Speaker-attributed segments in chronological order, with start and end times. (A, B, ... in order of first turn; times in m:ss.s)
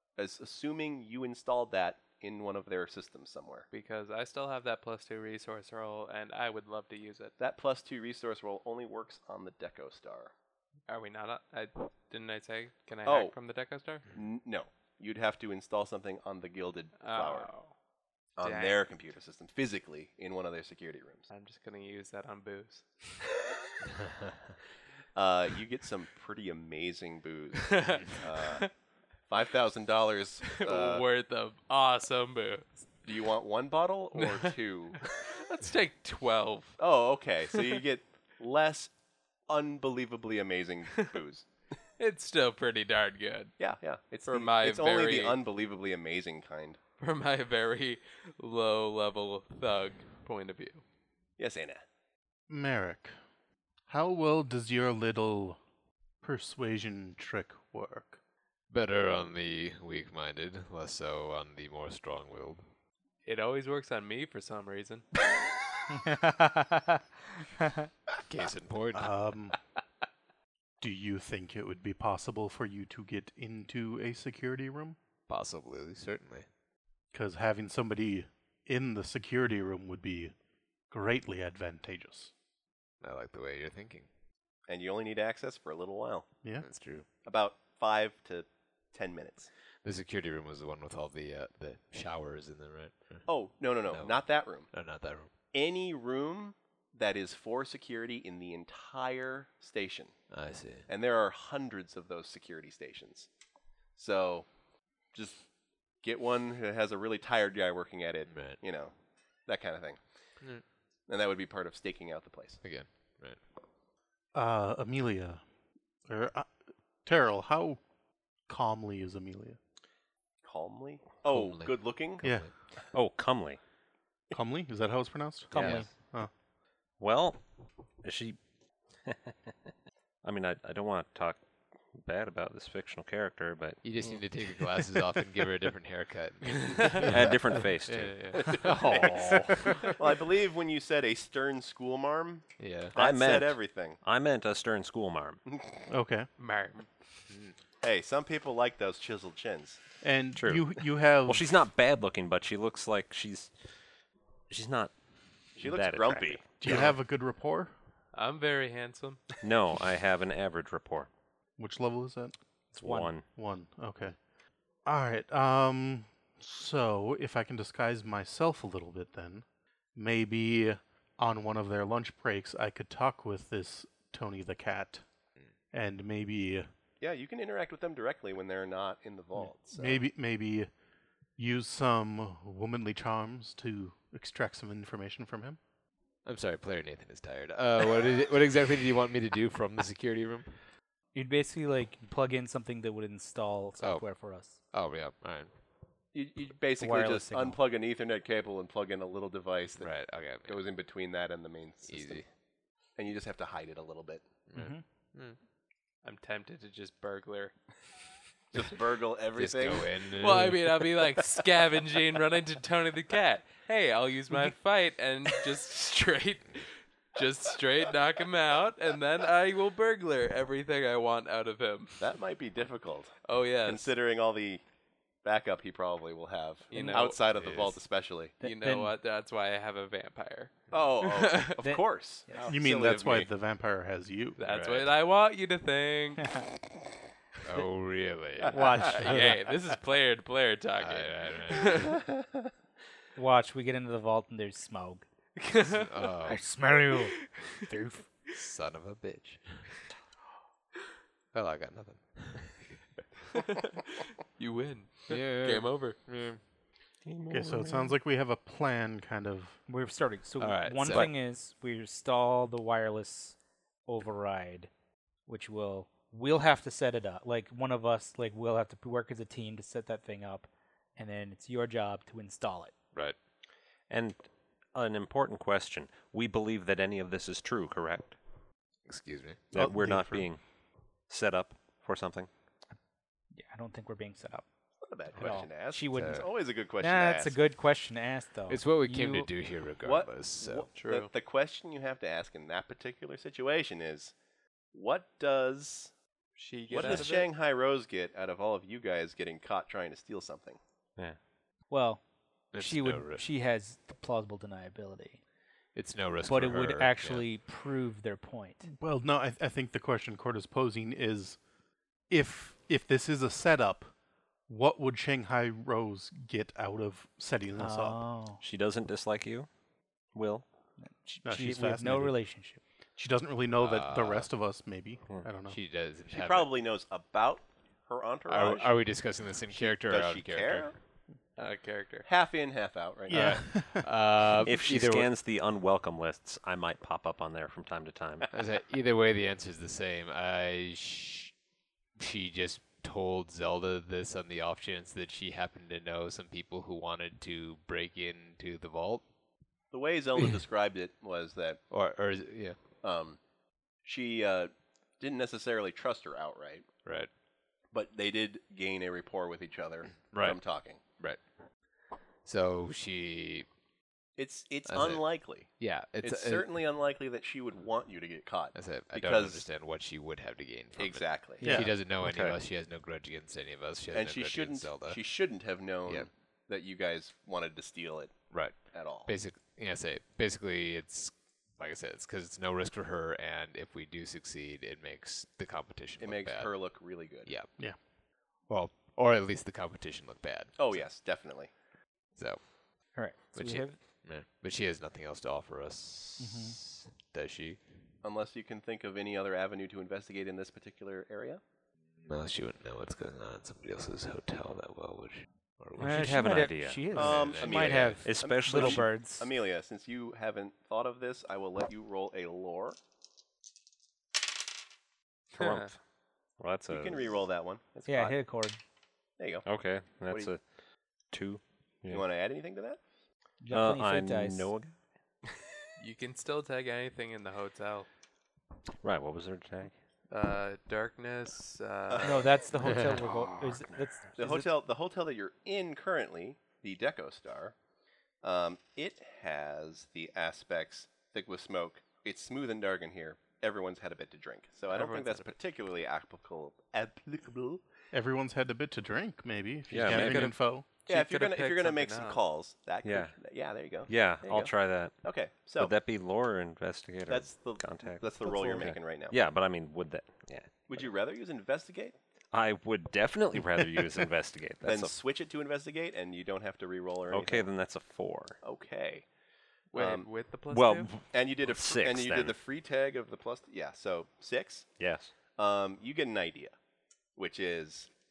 0:00.2-0:03.7 A
0:03.7-0:07.3 B
0:07.4-0:10.3 A
0:10.9-0:14.0 B
0:13.1-0:13.3 A
0:14.1-0:17.5 A
0:17.0-0:17.7 B
0:18.4-0:21.3 A
0:18.4-0:18.9 B
0:21.3-0:23.3 B
0:25.2-0:28.7 A
0:27.6-0:28.7 B
0:29.3-0:31.0 A
0:30.5-0:32.9 B
0:33.0-0:35.0 A
0:34.2-0:36.8 B
0:36.8-0:38.9 A
0:37.6-0:37.8 B
0:39.5-0:41.5 A
0:42.0-0:43.6 B
0:43.6-0:46.8 A
0:44.3-0:45.4 B
0:47.0-0:50.8 B
0:51.4-0:51.8 A
0:52.5-0:53.2 C
0:53.9-0:55.6 C
0:56.2-0:58.2 C
0:58.7-1:02.6 D
1:03.2-1:05.1 B
1:05.9-1:07.0 E
1:08.3-1:09.1 D
1:09.0-1:09.6 C
1:10.8-1:15.0 C
1:15.3-1:16.5 D
1:17.1-1:20.4 C
1:20.9-1:22.3 C
1:23.0-1:24.1 D
1:24.7-1:26.3 A
1:26.6-1:27.1 D
1:27.2-1:29.5 A
1:29.8-1:35.3 D
1:33.3-1:34.7 A
1:35.5-1:40.2 A
1:40.3-1:40.9 D
1:40.9-1:43.3 A
1:44.0-1:44.5 A
1:45.1-1:45.4 A
1:46.0-1:49.0 A
1:48.3-1:48.6 D
1:49.5-1:50.0 A
1:51.1-1:52.6 A
1:52.6-1:53.4 D
1:54.3-1:55.4 C
1:56.1-1:56.5 C
1:57.0-1:57.8 C
1:58.5-1:59.6 C
2:00.4-2:02.2 A
2:01.3-2:02.5 D
2:02.2-2:02.5 C
2:02.9-2:03.6 F
2:04.3-2:06.3 C
2:05.5-2:05.9 E
2:05.6-2:05.8 F
2:05.6-2:05.9 D
2:07.0-2:07.4 F
2:08.0-2:08.4 F
2:09.0-2:09.5 F
2:10.2-2:13.8 F
2:13.8-2:20.0 D
2:16.7-2:17.0 B
2:17.1-2:18.4 F
2:18.3-2:24.0 A
2:22.6-2:23.0 D
2:23.0-2:25.4 F
2:25.5-2:25.8 A
2:25.9-2:26.3 C
2:26.4-2:26.9 B
2:27.8-2:29.8 A
2:30.0-2:31.5 C
2:30.4-2:30.7 F
2:31.2-2:33.7 F
2:34.5-2:35.0 F
2:35.5-2:36.5 F
2:35.6-2:36.9 A
2:36.6-2:37.7 C
2:38.1-2:39.2 B
2:39.4-2:41.1 F
2:41.6-2:42.4 C
2:42.7-2:43.1 E
2:42.8-2:43.3 F
2:43.3-2:44.2 C
2:44.9-2:55.0 C
2:55.7-2:56.7 C
2:57.0-3:00.0 A
2:59.7-3:00.7 C
3:01.4-3:05.6 C
3:06.2-3:10.6 D
3:11.1-3:14.6 E
3:13.8-3:15.5 D
3:16.1-3:22.3 A
3:16.8-3:17.6 E
3:19.8-3:20.6 D
3:21.9-3:22.3 D
3:23.0-3:24.2 A
3:24.5-3:24.8 D
3:24.6-3:24.8 E
3:25.1-3:25.4 B
3:26.0-3:27.5 B
3:28.5-3:29.9 A
3:29.4-3:30.9 D
3:30.2-3:42.1 B
3:42.0-3:44.6 A
3:43.2-3:43.9 B
3:45.2-3:48.3 A
3:46.7-3:47.2 B
3:46.7-3:47.1 E
3:47.2-3:47.8 D
3:48.4-3:48.9 E
3:48.4-3:51.6 B
3:50.7-3:53.3 A
3:51.6-3:52.5 E
3:52.5-3:54.4 C
3:54.4-3:56.4 B
3:54.4-3:54.9 D
3:57.4-3:59.3 D
3:58.5-3:59.4 E
3:58.9-4:01.9 B
4:00.8-4:01.9 D
4:03.2-4:05.0 E
4:05.4-4:05.9 B
4:05.7-4:06.4 D
4:06.3-4:08.1 E
4:07.2-4:07.5 B
4:08.3-4:09.7 D
4:11.3-4:12.7 D
4:13.4-4:16.0 B
4:15.1-4:16.4 D
4:17.0-4:18.0 F
4:17.3-4:19.6 C
4:19.7-4:24.7 E
4:20.4-4:21.1 D
4:25.3-4:32.7 E
4:33.9-4:38.2 F
4:38.9-4:39.4 D
4:39.5-4:40.4 F
4:39.5-4:40.3 C
4:41.1-4:42.3 F
4:43.3-4:44.4 E
4:44.8-4:47.4 A
4:45.1-4:49.3 E
4:45.2-4:46.3 D
4:48.5-4:50.7 D
4:49.8-4:54.1 A
4:50.8-4:51.1 B
4:54.7-4:55.9 A
4:56.4-4:57.3 B
4:56.7-5:00.6 A
5:01.7-5:02.0 E
5:02.5-5:03.3 D
5:02.5-5:05.2 E
5:05.7-5:07.3 D
5:06.3-5:08.7 E
5:08.6-5:11.4 C
5:12.1-5:13.9 C
5:14.5-5:18.0 C
5:17.6-5:18.4 E
5:18.4-5:19.5 F
5:20.1-5:20.5 F
5:20.8-5:22.6 E
5:21.2-5:22.3 C
5:23.0-5:25.6 C
5:23.6-5:24.3 D
5:25.4-5:26.5 D
5:26.1-5:28.9 A
5:28.3-5:30.7 D
5:29.5-5:30.8 A
5:31.4-5:32.1 B
5:32.1-5:33.5 A
5:33.1-5:33.9 C
5:33.1-5:35.1 D
5:34.4-5:38.3 F
5:38.3-5:41.4 D
5:42.0-5:49.0 D
5:49.7-5:51.6 A
5:51.7-5:52.6 D
5:52.8-5:53.2 A
5:53.8-5:56.7 A
5:56.8-5:57.1 D
5:57.7-6:00.8 A
6:00.1-6:01.2 D
6:02.2-6:03.5 D
6:04.2-6:09.5 A
6:04.7-6:06.5 D
6:08.5-6:15.0 D
6:10.8-6:11.6 A
6:11.4-6:11.8 C
6:11.9-6:12.4 F
6:13.9-6:19.1 A
6:18.3-6:26.6 D
6:26.0-6:27.4 A
6:27.2-6:27.6 D
6:28.5-6:30.9 D
6:30.6-6:31.5 A
6:32.2-6:32.5 D
6:32.9-6:33.8 E
6:33.3-6:37.6 D
6:36.2-6:36.6 E
6:38.0-6:41.4 A
6:42.0-6:46.4 D
6:45.8-6:49.3 E
6:45.9-6:46.9 F
6:46.9-6:48.0 D
6:46.9-6:52.8 A
6:48.0-6:48.9 F
6:55.3-6:55.8 F
6:55.4-6:55.7 B
6:56.4-6:57.2 F
6:56.7-6:58.2 A
6:57.9-6:58.6 E
6:59.2-6:59.5 A
6:59.4-7:00.4 F
7:00.1-7:00.3 A
7:01.1-7:02.1 F
7:01.9-7:02.8 A
7:03.4-7:04.5 E
7:03.5-7:04.8 F
7:05.8-7:07.9 B
7:08.8-7:09.8 F
7:10.1-7:12.4 B
7:11.9-7:12.3 A
7:12.0-7:14.5 E
7:14.2-7:17.6 A
7:18.2-7:27.6 A
7:24.7-7:25.3 B
7:27.9-7:30.7 C
7:29.7-7:30.4 F
7:29.8-7:32.2 B
7:30.9-7:35.7 A
7:32.8-7:33.2 F
7:33.9-7:35.0 F
7:35.6-7:40.6 F
7:37.1-7:39.2 A
7:38.2-7:38.7 E
7:40.7-7:42.0 A
7:42.3-7:44.9 F
7:44.6-7:47.5 A
7:47.1-7:48.4 F
7:48.4-7:49.1 A
7:49.7-7:50.9 B
7:49.8-7:50.1 A
7:50.5-7:52.4 F
7:51.1-7:54.8 A
7:54.8-7:55.1 F
7:55.3-7:56.6 A
7:57.2-7:57.9 A